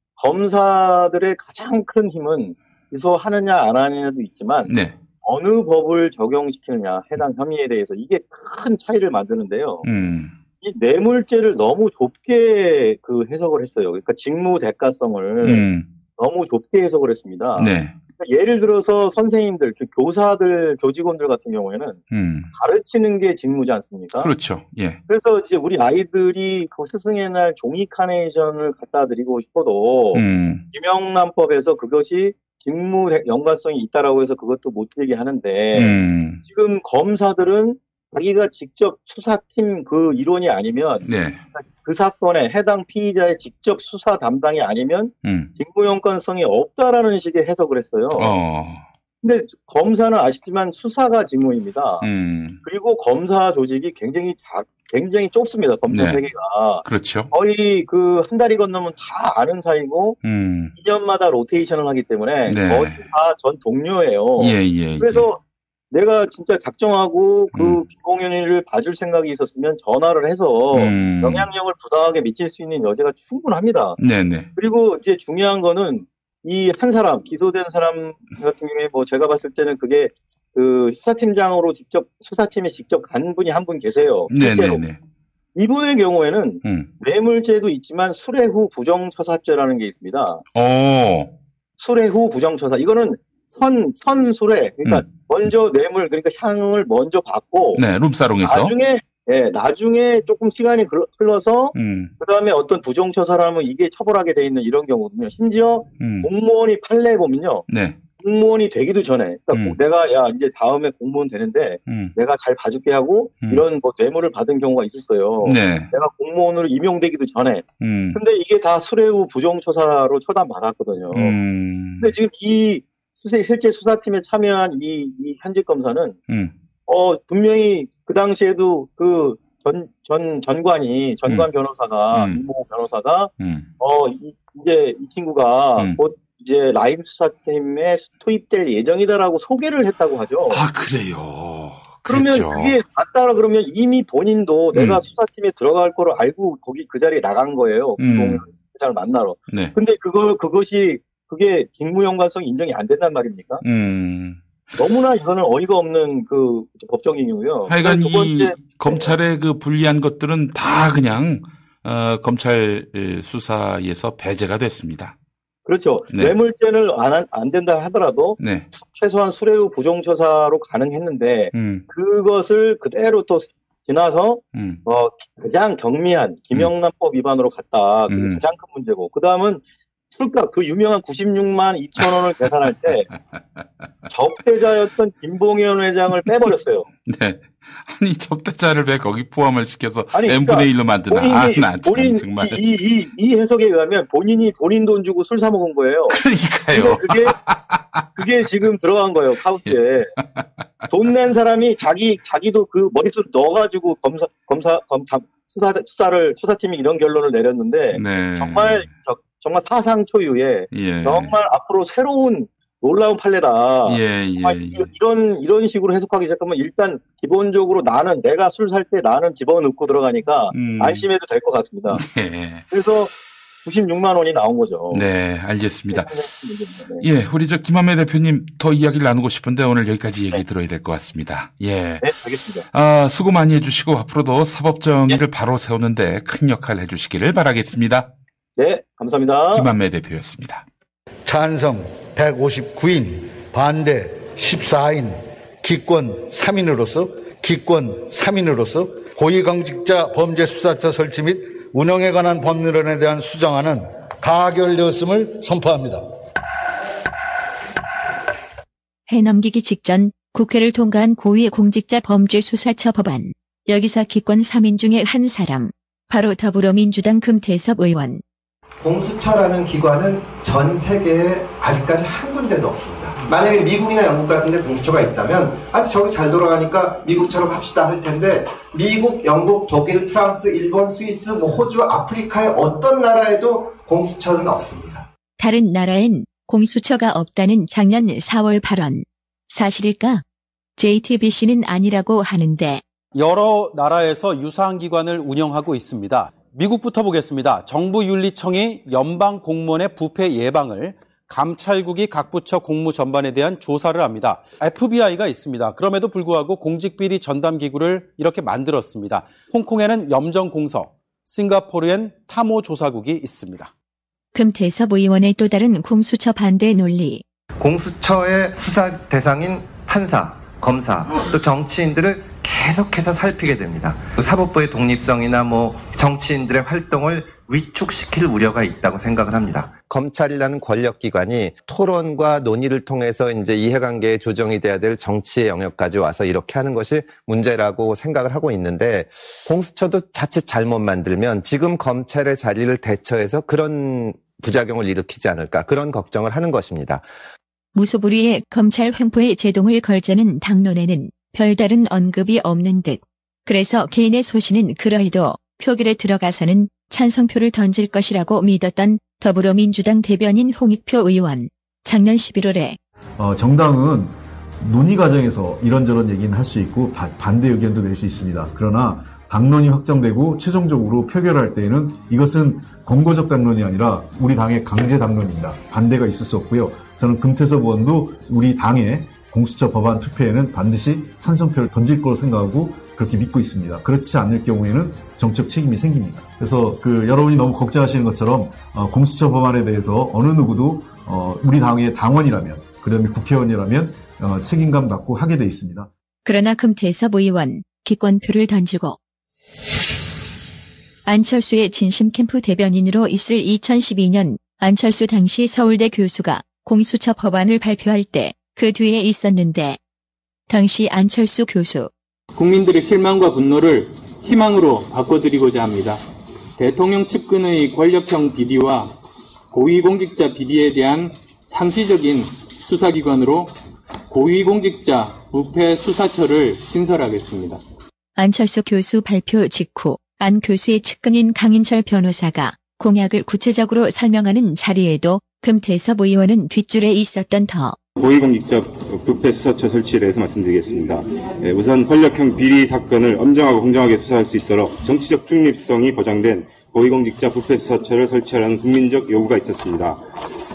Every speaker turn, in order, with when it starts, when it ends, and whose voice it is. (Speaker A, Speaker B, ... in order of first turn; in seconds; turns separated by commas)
Speaker A: 0.2-4.7, Speaker B: 4.7-5.0, Speaker A: 5.2-9.8, Speaker B: 9.8-10.3, Speaker A: 10.6-15.7, Speaker B: 15.4-15.9, Speaker A: 16.2-22.0, Speaker B: 17.6-17.9, Speaker B: 22.1-22.5, Speaker A: 22.5-24.3, Speaker B: 24.2-25.0, Speaker A: 25.1-41.0, Speaker B: 30.1-30.6, Speaker B: 35.7-36.4, Speaker B: 41.0-41.4, Speaker A: 41.5-48.3, Speaker B: 45.2-45.5, Speaker B: 48.1-48.8, Speaker A: 49.2-52.0, Speaker B: 52.0-52.6, Speaker A: 52.6-60.2, Speaker B: 55.9-56.2, Speaker B: 56.8-57.3, Speaker B: 60.2-60.7, Speaker A: 60.8-65.4, Speaker B: 62.5-63.0, Speaker B: 64.4-65.2, Speaker A: 65.9-74.0, Speaker B: 67.5-67.8, Speaker B: 70.7-71.5, Speaker B: 74.0-74.5, Speaker A: 74.5-84.8, Speaker B: 84.3-85.0, Speaker A: 85.5-90.4, Speaker B: 86.6-86.9, Speaker B: 90.5-91.3, Speaker A: 91.8-97.8, Speaker B: 97.7-98.7, Speaker A: 98.4-107.6, Speaker B: 101.7-102.1, Speaker B: 106.0-106.3, Speaker B: 107.7-108.0, Speaker A: 108.2-121.4, Speaker B: 111.9-112.1, Speaker B: 115.4-115.9, Speaker B: 117.8-118.2, Speaker B: 121.1-122.1, Speaker A: 122.0-126.2, Speaker B: 126.3-126.5, Speaker A: 126.9-140.6, Speaker B: 132.1-132.4, Speaker B: 133.4-133.7, Speaker B: 140.5-142.8, Speaker A: 142.1-153.6, Speaker B: 144.7-145.0, Speaker B: 148.0-148.4, Speaker B: 149.5-149.7, Speaker B: 153.6-154.4, Speaker A: 154.8-159.1, Speaker B: 157.7-165.1, Speaker A: 165.7-183.1, Speaker B: 168.4-168.7, Speaker B: 171.5-171.8, Speaker B: 174.5-174.8, Speaker B: 178.1-178.4, Speaker B: 183.1-183.6, Speaker A: 184.1-186.9, Speaker B: 187.0-192.6, Speaker A: 190.1-196.2, Speaker B: 196.1-198.2, Speaker A: 196.7-197.3, Speaker A: 198.2-200.1, Speaker B: 199.7-200.9, Speaker A: 200.9-222.0, Speaker B: 207.9-208.9, Speaker B: 210.7-211.3, Speaker B: 213.8-214.9, Speaker B: 220.5-221.0, Speaker B: 221.9-222.7, Speaker A: 222.7-223.1, Speaker A: 223.6-225.0, Speaker B: 224.9-226.1, Speaker A: 225.9-227.0, Speaker B: 227.0-232.1, Speaker A: 232.0-232.6, Speaker B: 232.7-238.1, Speaker A: 238.6-239.7, Speaker B: 239.5-240.6, Speaker C: 241.2-256.0, Speaker D: 259.1-268.2, Speaker E: 268.8-285.1, Speaker D: 285.4-290.2, Speaker D: 290.8-292.8, Speaker F: 293.1-313.7, Speaker D: 314.3-317.2, Speaker E: 317.6-347.1, Speaker D: 347.7-362.8, Speaker G: 363.2-395.9, Speaker D: 396.2-399.0, Speaker D: 401.0-409.8, Speaker D: 410.5-411.9, Speaker H: 412.3-416.0, Speaker H: 416.6-418.9, Speaker H: 419.5-423.5, Speaker H: 424.1-427.6, Speaker D: 428.2-437.8, Speaker I: 438.0-450.0